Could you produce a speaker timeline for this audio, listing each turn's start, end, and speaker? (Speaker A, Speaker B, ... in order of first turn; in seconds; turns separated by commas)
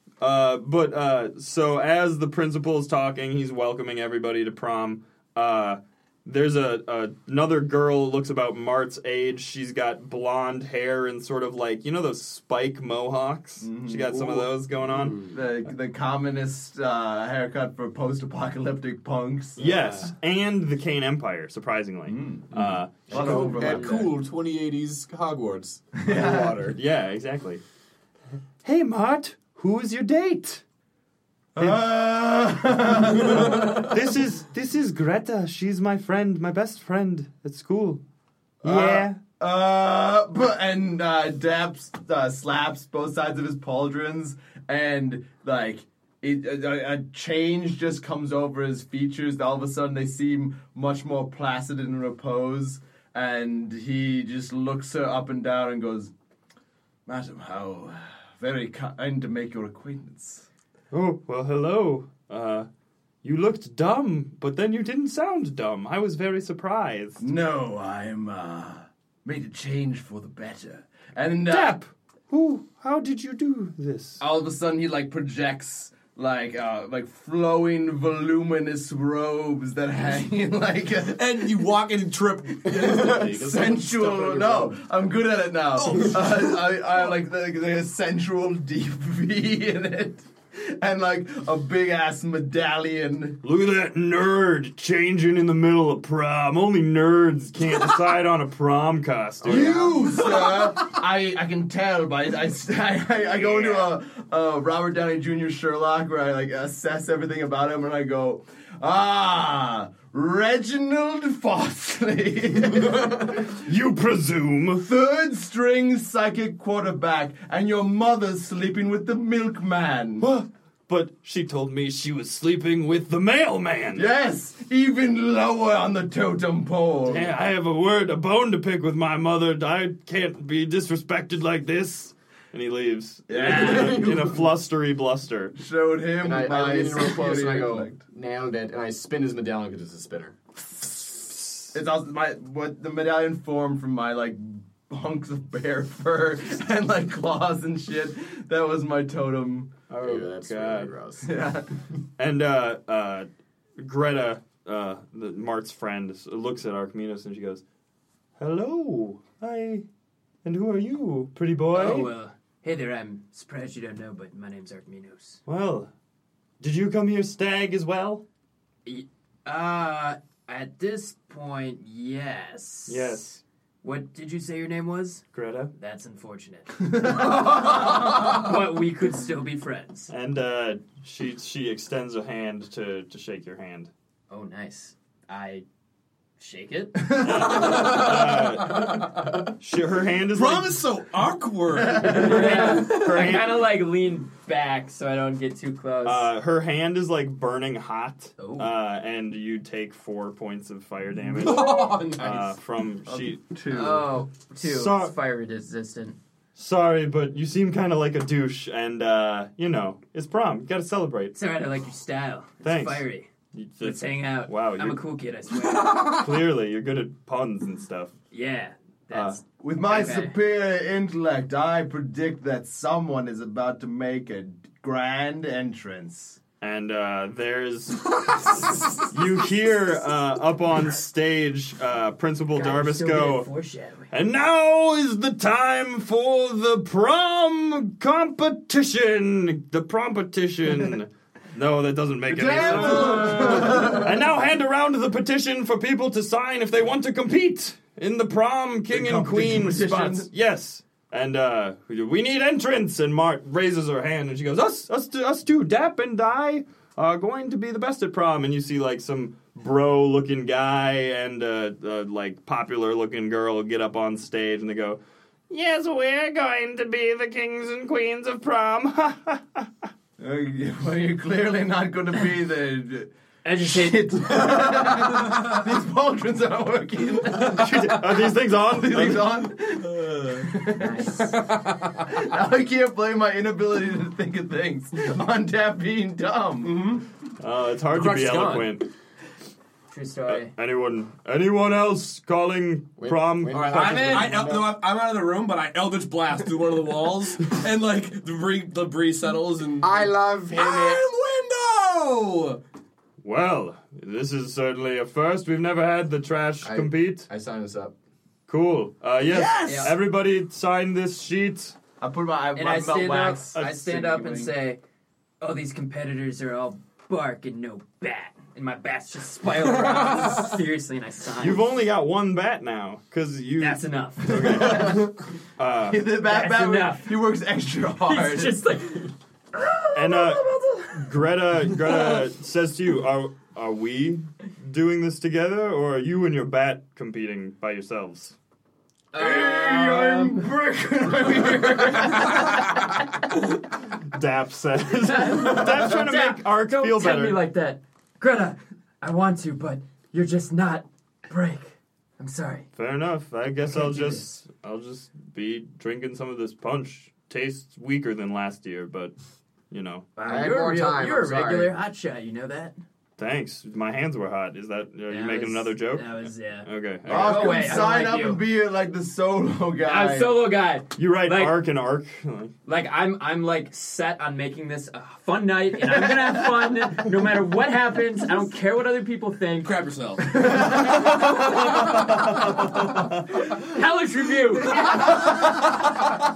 Speaker A: 0.2-15.2, Speaker B: 13.6-14.5, Speaker C: 14.9-15.3, Speaker B: 15.3-19.7, Speaker A: 19.6-23.8, Speaker B: 22.1-24.1, Speaker D: 23.1-26.8, Speaker B: 26.0-26.6, Speaker A: 26.7-27.6, Speaker A: 28.6-30.6, Speaker B: 31.6-33.9, Speaker A: 31.6-31.8, Speaker A: 33.1-38.0, Speaker A: 38.6-39.2, Speaker B: 38.6-56.1, Speaker B: 57.0-60.5, Speaker A: 60.9-62.7, Speaker A: 63.2-67.2, Speaker B: 67.2-71.8, Speaker A: 71.5-74.2, Speaker B: 74.2-81.7, Speaker C: 81.1-84.7, Speaker D: 82.7-83.4, Speaker B: 82.8-93.4, Speaker D: 84.2-84.7, Speaker C: 85.8-86.7, Speaker A: 93.4-100.0, Speaker B: 99.4-113.6, Speaker A: 103.3-103.9, Speaker A: 113.5-114.9, Speaker B: 114.8-120.3, Speaker A: 120.2-124.1, Speaker B: 123.9-127.3, Speaker A: 127.0-135.5, Speaker B: 133.3-134.5, Speaker B: 135.6-138.0, Speaker D: 136.2-140.3, Speaker B: 141.7-149.7, Speaker A: 149.9-150.9, Speaker D: 150.0-151.4, Speaker B: 151.2-151.7, Speaker A: 152.2-157.6, Speaker A: 158.4-159.8, Speaker A: 160.4-162.1, Speaker E: 161.7-165.4, Speaker A: 165.4-165.9, Speaker A: 166.6-168.2, Speaker E: 168.8-173.2, Speaker A: 172.9-173.4, Speaker E: 173.8-180.1, Speaker A: 175.3-175.7, Speaker B: 177.0-177.7, Speaker A: 180.1-183.9, Speaker E: 184.3-185.6, Speaker E: 186.4-187.5, Speaker B: 187.0-187.8, Speaker A: 187.2-190.8, Speaker C: 187.4-189.2, Speaker C: 190.3-192.8, Speaker B: 191.7-192.6, Speaker E: 192.0-196.3, Speaker A: 192.1-193.7, Speaker A: 196.0-203.4, Speaker E: 198.4-198.7, Speaker C: 201.3-202.6, Speaker B: 203.1-204.1, Speaker E: 203.7-206.2, Speaker A: 204.6-205.1, Speaker A: 206.6-211.3, Speaker E: 211.3-213.3, Speaker A: 212.6-215.1, Speaker E: 213.8-216.2, Speaker A: 216.0-218.1, Speaker E: 218.3-220.3, Speaker A: 219.1-219.4, Speaker B: 219.6-226.4, Speaker A: 226.6-233.5, Speaker E: 232.5-234.1, Speaker A: 234.1-265.0, Speaker B: 242.3-244.1, Speaker D: 243.4-244.0, Speaker B: 248.9-250.3, Speaker A: 265.5-269.9, Speaker B: 270.2-278.0, Speaker E: 273.4-274.1, Speaker A: 277.4-279.3, Speaker B: 278.6-281.0, Speaker C: 279.8-280.5, Speaker E: 280.7-281.4, Speaker C: 281.2-282.0, Speaker B: 282.0-286.8, Speaker C: 286.6-287.0, Speaker A: 287.4-288.9, Speaker C: 287.9-288.7, Speaker E: 289.9-290.5, Speaker A: 290.3-294.5, Speaker D: 293.0-294.8, Speaker C: 293.5-302.6, Speaker D: 299.8-301.1, Speaker A: 303.2-307.3, Speaker D: 306.6-307.9, Speaker A: 308.5-311.8, Speaker C: 309.3-309.9, Speaker E: 309.6-309.9, Speaker B: 312.0-314.5, Speaker E: 312.5-314.8, Speaker E: 315.4-321.6, Speaker A: 321.4-326.1, Speaker E: 323.6-325.0, Speaker B: 324.3-325.1, Speaker B: 325.9-328.6, Speaker E: 326.2-327.1, Speaker E: 328.0-331.1, Speaker A: 329.9-338.4, Speaker E: 339.1-340.5, Speaker B: 339.1-342.4, Speaker E: 341.1-342.9, Speaker A: 344.0-347.4, Speaker E: 345.0-352.7, Speaker A: 352.8-359.1, Speaker A: 359.7-360.1, Speaker E: 360.1-362.8, Speaker D: 360.2-361.7, Speaker A: 363.2-367.7, Speaker E: 365.1-368.4, Speaker B: 367.1-370.5, Speaker E: 369.8-371.6, Speaker A: 370.9-372.5, Speaker E: 372.6-379.8, Speaker C: 379.6-380.9, Speaker A: 381.1-383.1, Speaker C: 381.5-382.2, Speaker E: 383.5-385.4, Speaker C: 384.7-385.9